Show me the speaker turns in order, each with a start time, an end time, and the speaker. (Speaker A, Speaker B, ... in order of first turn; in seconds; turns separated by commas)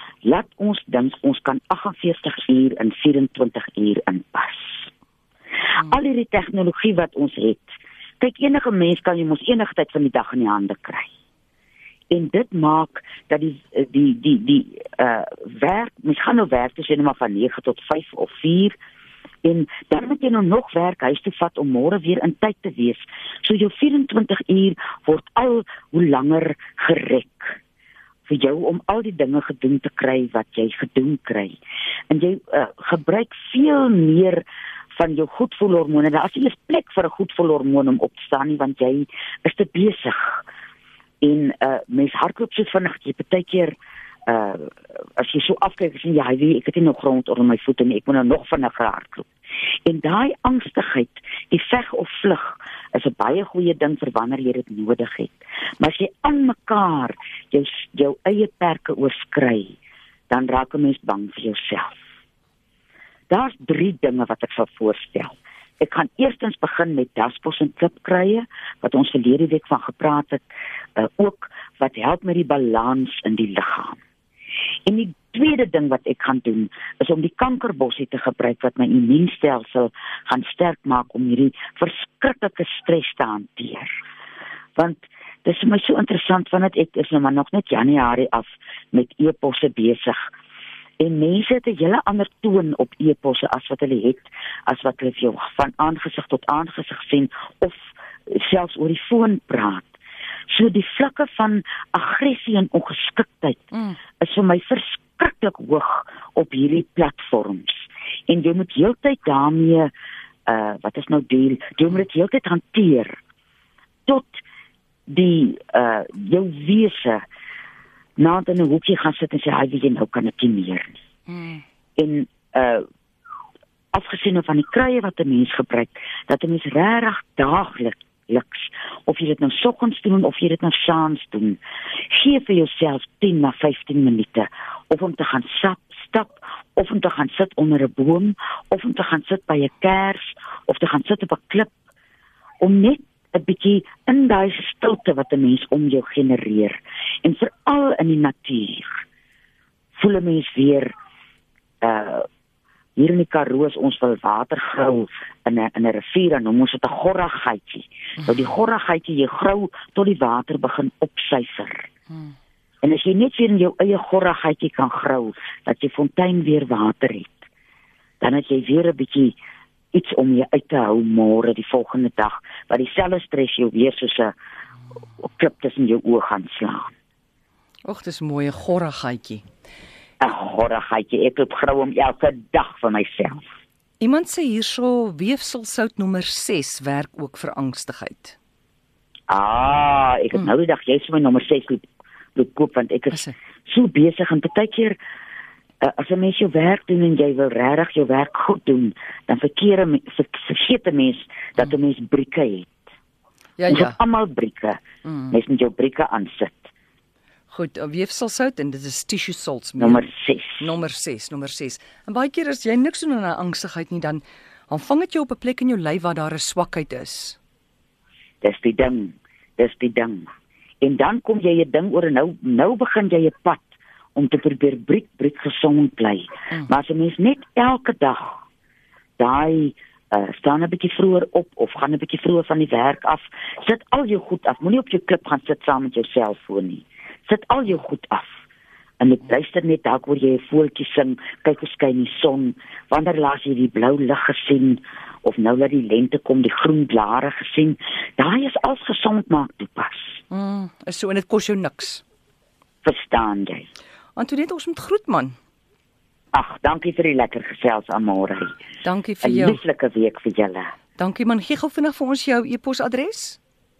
Speaker A: 0.2-4.9, Speaker A: 5.7-11.1, Speaker A: 12.1-18.7, Speaker A: 19.4-27.6, Speaker A: 28.3-31.6, Speaker A: 32.1-40.4, Speaker A: 41.2-43.8, Speaker A: 44.3-49.3, Speaker A: 49.9-59.8, Speaker A: 60.3-61.9, Speaker A: 63.3-74.0, Speaker A: 74.8-83.9, Speaker A: 84.8-90.2, Speaker A: 91.0-100.0, Speaker A: 100.5-109.9, Speaker B: 103.7-104.0, Speaker A: 110.5-113.2, Speaker A: 114.1-114.4, Speaker A: 115.1-117.2, Speaker A: 118.2-121.0, Speaker B: 121.3-121.6, Speaker A: 122.0-122.8, Speaker A: 123.9-141.7, Speaker A: 142.6-148.9, Speaker A: 150.0-150.9, Speaker A: 151.8-152.3, Speaker A: 152.9-161.9, Speaker A: 162.8-167.4, Speaker A: 168.2-169.3, Speaker A: 169.9-174.3, Speaker A: 175.2-176.9, Speaker B: 177.8-179.4, Speaker A: 180.2-183.4, Speaker B: 184.0-188.4, Speaker A: 189.3-195.0, Speaker A: 195.8-202.8, Speaker B: 203.6-204.0, Speaker A: 203.7-204.8, Speaker B: 205.0-205.3, Speaker A: 205.3-206.7, Speaker B: 207.5-210.1, Speaker A: 209.8-210.7, Speaker B: 210.6-217.4, Speaker A: 218.4-220.3, Speaker A: 220.8-228.4, Speaker A: 229.2-238.3, Speaker A: 239.0-250.2, Speaker B: 250.3-252.0, Speaker A: 252.8-253.7, Speaker B: 254.2-255.3, Speaker A: 256.3-258.5, Speaker B: 258.8-259.6, Speaker A: 259.2-260.7, Speaker B: 261.0-263.4